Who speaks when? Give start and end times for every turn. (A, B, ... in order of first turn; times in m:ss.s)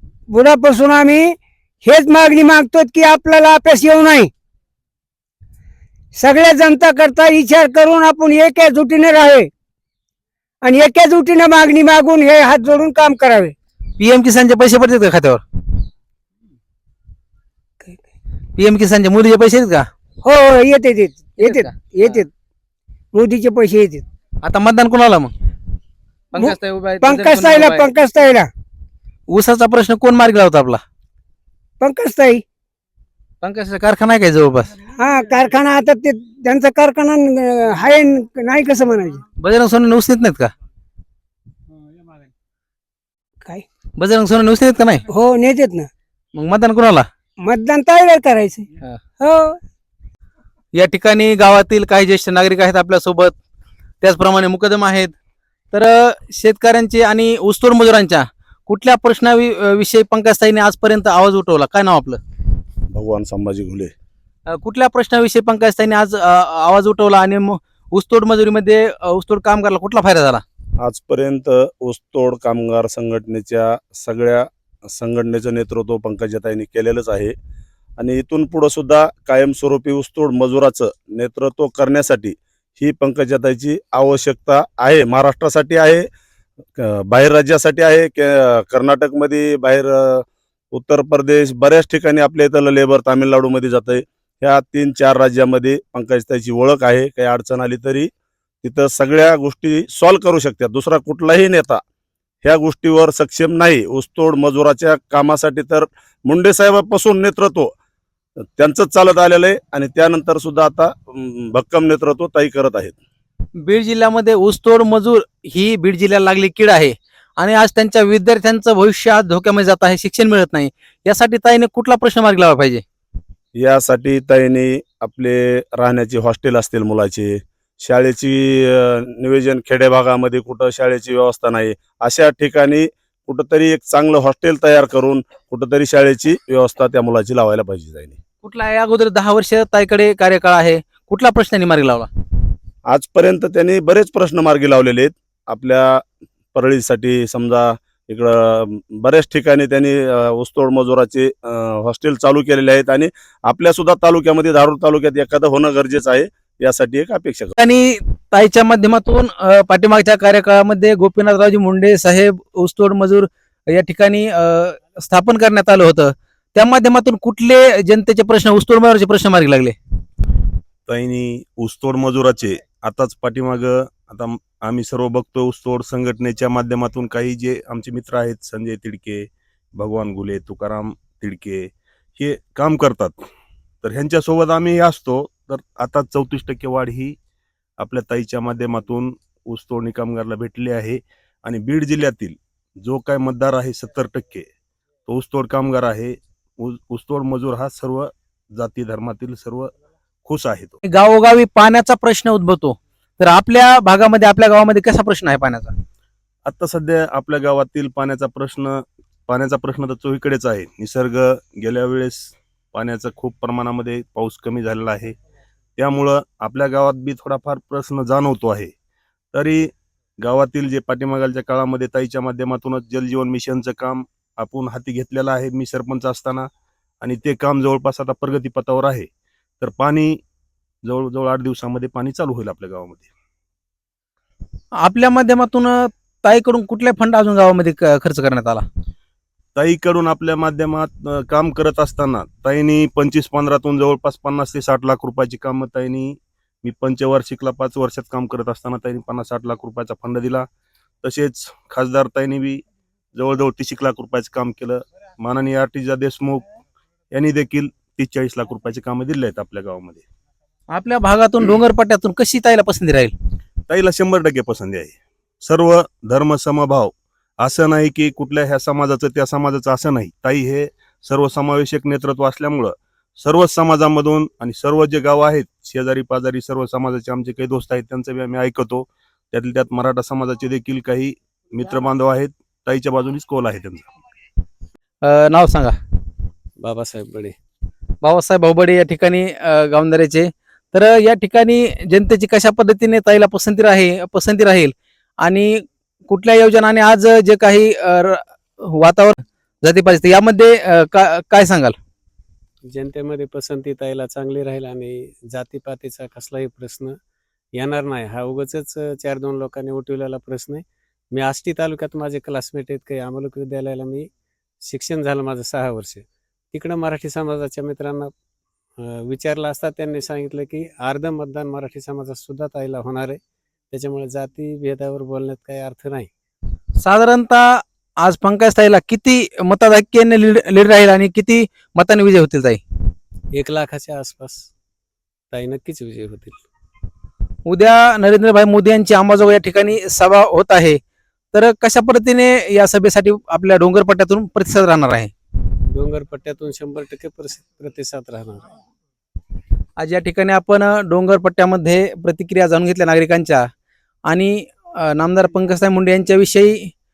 0:00.3-0:04.3 A
0:06.2-0:09.5 A
0:10.6-0:13.5 A
0:14.0-0:15.4 B
0:18.6-0:19.9 B
0:20.2-0:22.3 A
0:21.4-0:22.2 B
0:23.1-0:24.0 A
0:24.4-0:25.3 B
0:26.3-0:27.9 B
0:26.4-0:28.5 A
0:29.3-0:30.8 B
0:31.8-0:32.4 A
0:33.4-0:34.7 B
0:35.0-0:39.2 A
0:39.4-0:40.5 B
0:44.0-0:45.0 B
0:45.1-0:45.9 A
0:46.4-0:47.1 B
0:47.4-0:48.7 A
0:49.2-0:49.6 A
0:50.8-0:53.4 B
0:54.0-0:55.1 B
0:55.7-1:02.2 B
1:02.9-1:03.9 C
1:04.5-1:10.4 B
1:10.8-1:17.4 C
1:18.0-1:26.1 C
1:26.8-1:38.1 C
1:38.6-1:41.8 C
1:42.4-1:47.7 C
1:48.6-1:53.0 C
1:53.6-2:02.8 B
2:03.6-2:18.2 C
2:18.4-2:22.1 B
2:22.9-2:26.0 C
2:26.6-2:37.6 C
2:37.6-2:49.8 B
2:50.9-3:03.2 D
3:03.8-3:07.2 D
3:07.8-3:14.5 D
3:15.1-3:19.7 D
3:20.2-3:20.8 D
3:20.9-3:25.7 B
3:26.5-3:35.2 D
3:35.8-3:38.7 D
3:39.3-3:46.5 D
3:47.0-3:50.2 D
3:50.8-3:53.1 D
3:54.8-3:58.6 B
3:59.6-4:10.5 D
4:11.0-4:16.4 D
4:17.1-4:20.0 D
4:20.7-4:23.1 B
4:23.7-4:43.9 D
4:45.1-4:45.8 B
4:46.6-4:47.4 E
4:48.0-5:01.8 B
5:02.7-5:07.0 E
5:07.6-5:14.1 E
5:14.7-5:18.1 E
5:18.8-5:23.2 E
5:23.7-5:26.1 E
5:26.8-5:32.6 B
5:33.4-5:34.5 E
5:35.3-5:36.4 E
5:37.5-5:40.8 B
5:41.3-5:45.1 B
5:45.7-5:48.5 E
5:49.8-5:53.5 B
5:54.1-5:56.7 B